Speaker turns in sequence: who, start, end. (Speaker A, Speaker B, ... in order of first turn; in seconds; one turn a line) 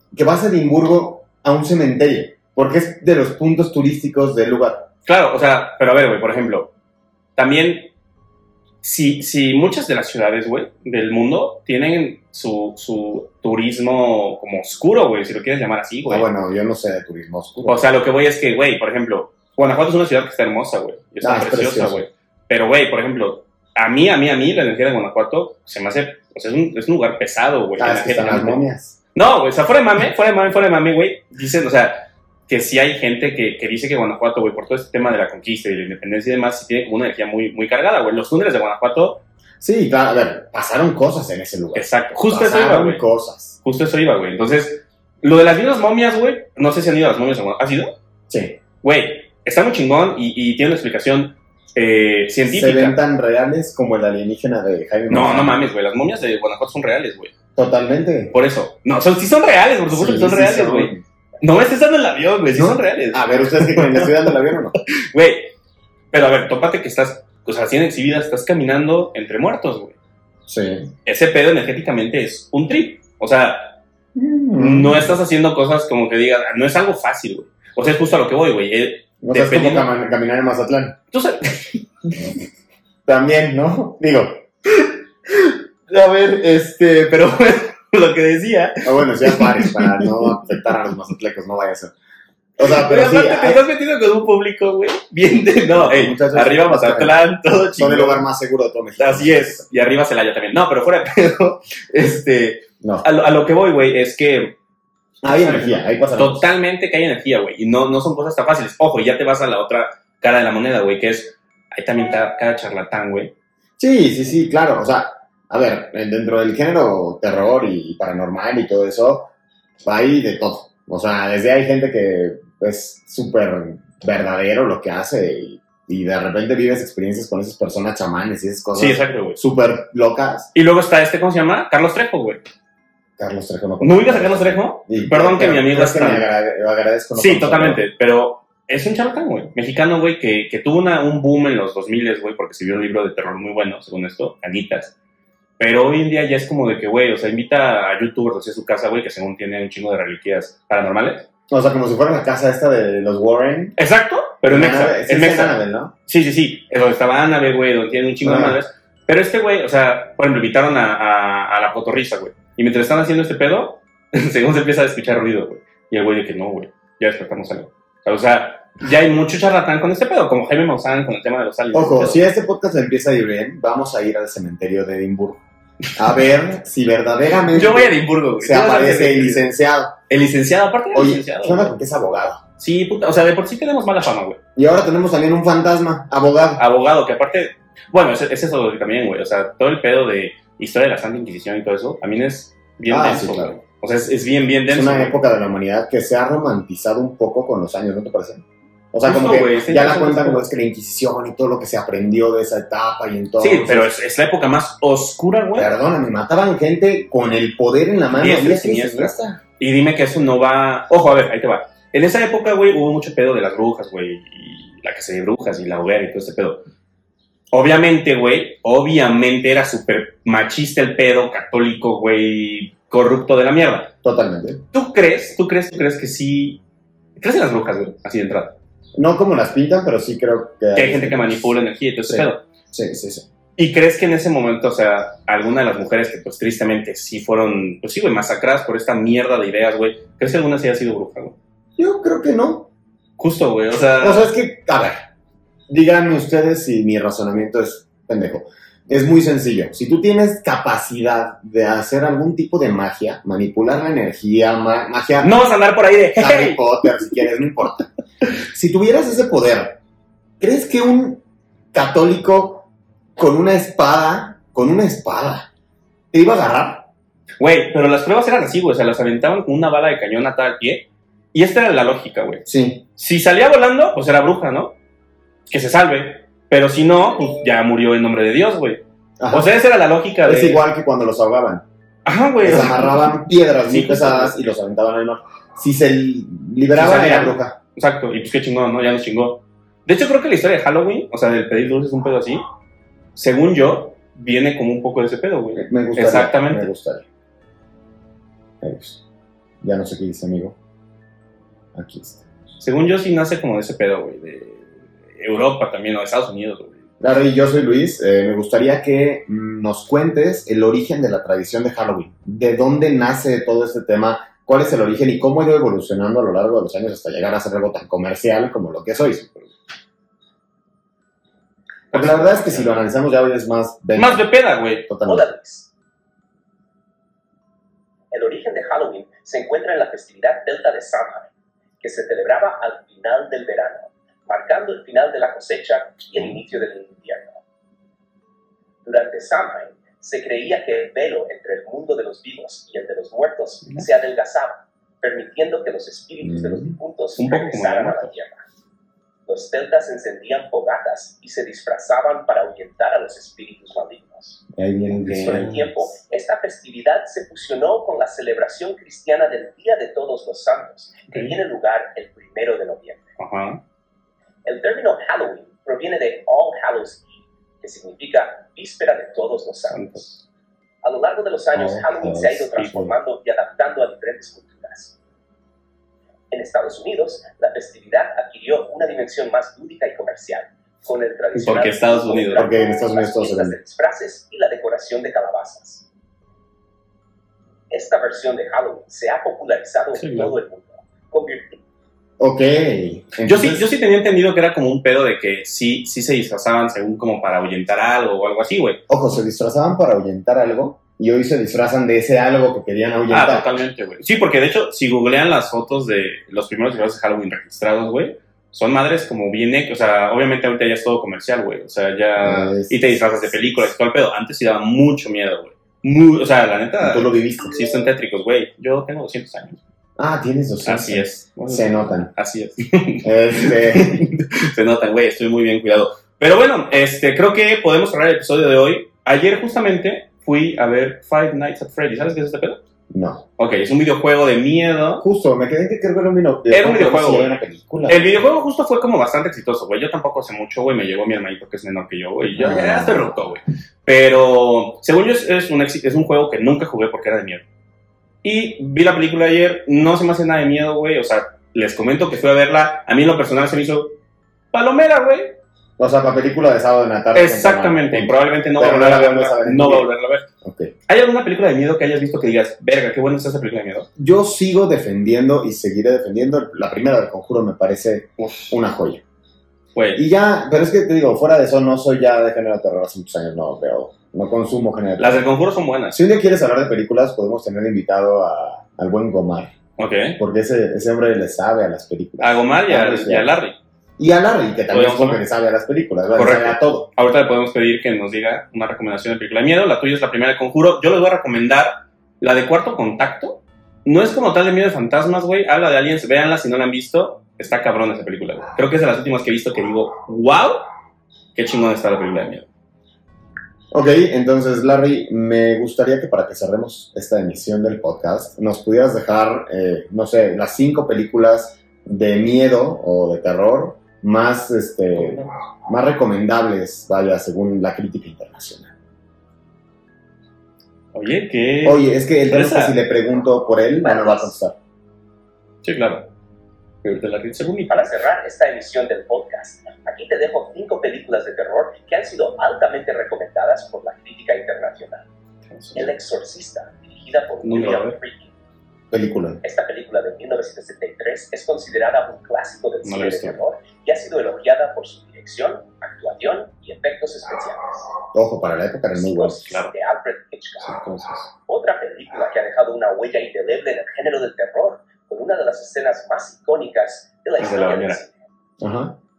Speaker A: 0.1-4.9
Speaker B: 5.1-6.7
Speaker B: 7.4-7.9
Speaker B: 8.8-16.3
Speaker A: 16.1-17.8
Speaker B: 17.7-28.6
Speaker A: 21.2-22.0
Speaker A: 27.8-29.0
Speaker B: 29.1-39.2
Speaker A: 39.6-43.6
Speaker B: 41.8-43.0
Speaker B: 43.6-48.0
Speaker A: 48.3-48.6
Speaker B: 48.8-53.0
Speaker A: 52.5-55.6
Speaker B: 55.1-57.3
Speaker A: 57.6-58.4
Speaker B: 58.3-64.3
Speaker A: 59.9-61.0
Speaker A: 62.5-64.8
Speaker B: 64.9-65.5
Speaker B: 66.1-70.0
Speaker A: 70.5-70.9
Speaker B: 71.1-73.8
Speaker A: 74.2-75.2
Speaker B: 74.6-79.9
Speaker A: 79.2-81.0
Speaker B: 81.1-81.8
Speaker A: 83.1-84.4
Speaker B: 85.5-90.4
Speaker A: 88.8-91.9
Speaker A: 92.6-93.6
Speaker B: 92.6-98.2
Speaker A: 95.7-99.7
Speaker B: 99.0-104.6
Speaker A: 105.2-106.5
Speaker B: 105.3-113.3
Speaker A: 113.8-119.3
Speaker A: 119.8-130.5
Speaker B: 128.8-129.4
Speaker B: 130.6-132.4
Speaker A: 133.2-137.8
Speaker B: 133.8-136.3
Speaker B: 137.2-144.9
Speaker B: 145.6-151.3
Speaker A: 151.5-153.8
Speaker B: 153.8-172.2
Speaker A: 154.4-155.9
Speaker A: 158.2-158.6
Speaker A: 171.7-175.4
Speaker A: 175.9-180.0
Speaker B: 177.5-179.5
Speaker B: 180.1-181.8
Speaker A: 180.9-182.4
Speaker B: 182.6-184.4
Speaker A: 184.6-186.7
Speaker B: 186.6-195.2
Speaker A: 192.9-193.6
Speaker A: 194.7-203.9
Speaker B: 199.0-200.5
Speaker B: 203.4-205.7
Speaker A: 205.6-209.4
Speaker B: 208.1-216.7
Speaker B: 217.5-223.9
Speaker A: 224.0-224.6
Speaker B: 224.7-226.6
Speaker B: 227.2-228.6
Speaker A: 229.0-231.5
Speaker B: 230.8-232.4
Speaker A: 232.1-233.3
Speaker B: 233.6-241.4
Speaker A: 241.8-242.7
Speaker B: 243.2-244.3
Speaker A: 244.0-245.1
Speaker A: 245.7-255.3
Speaker B: 255.2-256.9
Speaker A: 256.2-257.9
Speaker A: 258.5-259.8
Speaker A: 260.4-265.5
Speaker A: 266.1-266.9
Speaker B: 267.4-272.4
Speaker A: 272.4-272.9
Speaker B: 273.0-274.8
Speaker B: 275.5-280.6
Speaker A: 279.2-279.5
Speaker A: 280.2-281.6
Speaker B: 282.1-283.1
Speaker A: 282.4-287.6
Speaker B: 283.6-284.5
Speaker B: 286.7-292.4
Speaker B: 293.2-296.7
Speaker A: 295.6-297.1
Speaker A: 298.6-299.0
Speaker A: 299.6-300.6
Speaker A: 301.7-302.5
Speaker B: 302.6-306.8
Speaker A: 307.0-319.6
Speaker B: 321.9-322.8
Speaker A: 321.9-324.2
Speaker B: 324.0-324.9
Speaker A: 324.9-325.3
Speaker C: 325.0-325.7
Speaker C: 328.1-337.4
Speaker C: 338.9-348.4
Speaker A: 346.2-346.8
Speaker B: 347.2-348.1
Speaker C: 349.3-354.4
Speaker A: 354.6-355.6
Speaker B: 355.1-355.7
Speaker C: 355.2-363.0
Speaker B: 361.1-361.4
Speaker B: 363.2-363.6
Speaker C: 364.4-370.0
Speaker B: 369.7-370.2
Speaker C: 370.8-375.0
Speaker A: 371.6-372.9
Speaker C: 376.3-385.9
Speaker B: 381.3-382.5
Speaker A: 382.4-383.6
Speaker C: 387.7-391.6
Speaker B: 389.9-390.4
Speaker A: 392.2-393.7
Speaker B: 393.2-398.8
Speaker A: 398.9-403.5
Speaker B: 403.1-419.6
Speaker A: 412.2-413.7
Speaker A: 416.8-417.5
Speaker A: 420.0-422.1
Speaker B: 420.6-432.6
Speaker A: 423.0-424.1
Speaker A: 432.9-433.2
Speaker B: 433.4-435.0
Speaker A: 435.0-438.2
Speaker B: 436.5-447.4
Speaker A: 442.4-443.1
Speaker B: 448.2-453.9
Speaker B: 454.5-455.4
Speaker A: 455.8-459.9
Speaker B: 457.1-460.3
Speaker A: 460.4-460.7
Speaker B: 460.9-463.9
Speaker A: 464.0-469.0
Speaker B: 468.2-468.6
Speaker B: 469.8-470.0
Speaker A: 469.9-475.3
Speaker B: 475.0-476.0
Speaker A: 475.9-479.5
Speaker B: 479.8-480.2
Speaker A: 480.2-483.3
Speaker B: 482.2-483.6
Speaker A: 484.0-486.9
Speaker B: 484.7-485.2
Speaker B: 486.2-500.7
Speaker B: 501.4-502.5
Speaker A: 503.7-518.7
Speaker B: 515.0-515.3
Speaker B: 520.9-522.8
Speaker A: 521.6-524.6
Speaker C: 523.8-524.3
Speaker B: 525.6-526.1
Speaker B: 526.8-528.0
Speaker C: 527.7-535.1
Speaker B: 535.5-535.9
Speaker C: 535.8-538.3
Speaker B: 537.4-538.0
Speaker A: 538.9-539.4
Speaker C: 539.4-547.9
Speaker B: 542.8-543.4
Speaker A: 548.1-549.5
Speaker C: 548.9-550.7
Speaker B: 549.4-549.7
Speaker B: 550.6-551.3
Speaker C: 551.5-558.2
Speaker B: 557.4-558.0
Speaker A: 558.6-559.0